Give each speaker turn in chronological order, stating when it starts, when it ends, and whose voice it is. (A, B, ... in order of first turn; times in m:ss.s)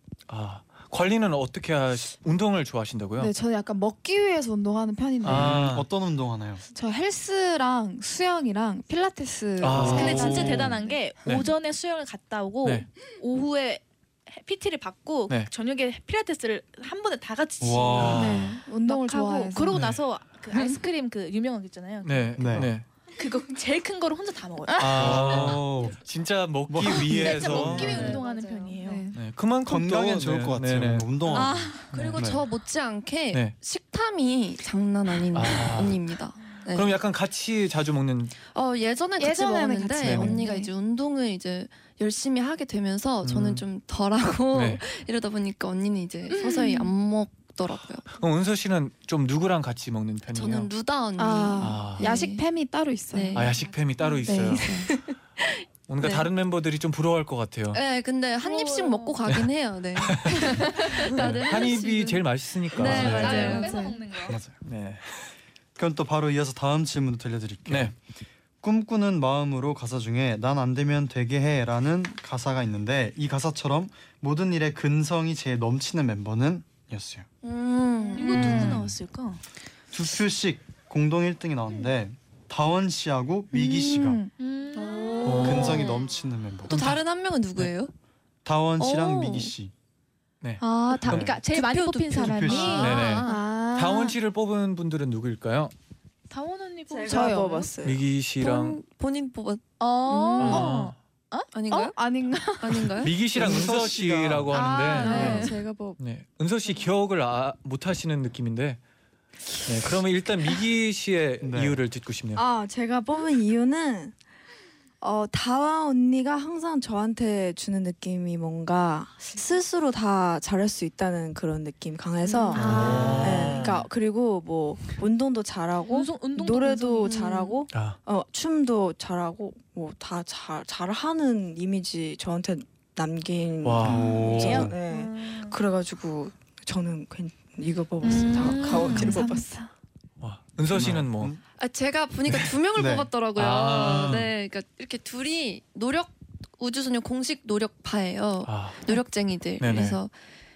0:00.3-0:03.3 A
0:03.2-0:05.6 B
0:05.2-0:05.9 A
0:05.2-0:06.6 C
0:06.7-0:11.0 B
0:09.6-0:10.6 A
0:09.7-0:10.8 C
0:09.8-0:25.3 D
0:17.6-0:18.6 C
0:18.0-0:18.6 A
0:18.0-0:19.8 B
0:19.7-0:20.0 A
0:22.0-0:22.9 A
0:22.4-0:22.7 C
0:24.8-0:28.2 A
0:25.0-0:26.0 C
0:26.7-0:28.2 C
0:27.0-0:29.1 D
0:27.8-0:29.2 B
0:29.1-0:32.3 A
0:29.6-0:32.4 C
0:31.3-0:37.0 E
0:33.3-0:33.6 A
0:35.3-0:38.4 A
0:38.5-0:48.1 E
0:39.2-0:40.7 B
0:40.0-0:40.4 A
0:43.2-0:43.6 A
0:44.5-0:44.8 A
0:46.3-0:46.9 B
0:48.2-0:50.7 A
0:50.3-0:52.4 E
0:51.2-0:53.6 B
0:51.6-0:52.1 A
0:53.1-0:53.7 E
0:53.3-0:54.9 A
0:54.2-0:54.9 E
0:54.2-0:55.0 B
0:55.9-0:57.8 A
0:56.0-0:56.3 E
0:57.7-1:04.0 E
0:58.4-0:59.2 D
0:59.3-1:03.7 A
1:02.8-1:04.4 D
1:02.8-1:03.2 C
1:04.3-1:04.6 C
1:04.6-1:05.3 A
1:05.8-1:08.0 C
1:07.7-1:07.9 A
1:08.6-1:17.3 C
1:17.4-1:18.8 E
1:18.1-1:19.4 D
1:18.3-1:18.9 C
1:19.9-1:24.2 C
1:23.6-1:25.4 D
1:24.8-1:26.1 E
1:25.2-1:25.9 A
1:25.4-1:26.9 C
1:26.7-1:27.9 E
1:26.7-1:27.0 A
1:28.4-1:29.7 C
1:28.8-1:29.5 E
1:30.4-1:31.3 A
1:30.6-1:33.0 D
1:31.1-1:31.4 C
1:31.4-1:33.5 E
1:32.2-1:33.0 C
1:32.8-1:35.7 A
1:33.2-1:34.2 B
1:36.3-1:37.7 D
1:36.9-1:38.0 F
1:37.1-1:37.7 B
1:37.8-1:38.8 A
1:38.4-1:40.9 E
1:39.8-1:42.6 D
1:40.4-1:41.0 A
1:41.5-1:42.0 E
1:41.8-1:43.1 B
1:42.6-1:43.2 E
1:43.0-1:48.8 A
1:43.3-1:44.6 C
1:44.5-1:46.0 B
1:44.9-1:45.6 E
1:45.0-1:45.5 D
1:45.1-1:45.7 F
1:49.6-1:52.5 A
1:51.4-1:51.8 C
1:52.3-1:54.2 F
1:55.0-2:19.6 F
2:02.3-2:03.2 D
2:02.6-2:03.9 A
2:02.6-2:03.2 E
2:05.9-2:07.2 D
2:07.1-2:07.6 E
2:07.7-2:08.0 A
2:13.6-2:14.7 A
2:13.8-2:14.8 C
2:14.2-2:15.6 D
2:18.0-2:19.6 D
2:18.7-2:19.0 E
2:20.2-2:21.4 A
2:20.7-2:21.4 C
2:21.6-2:30.1 E
2:22.8-2:23.1 C
2:23.4-2:24.3 A
2:28.5-2:28.8 A
2:29.6-2:30.0 A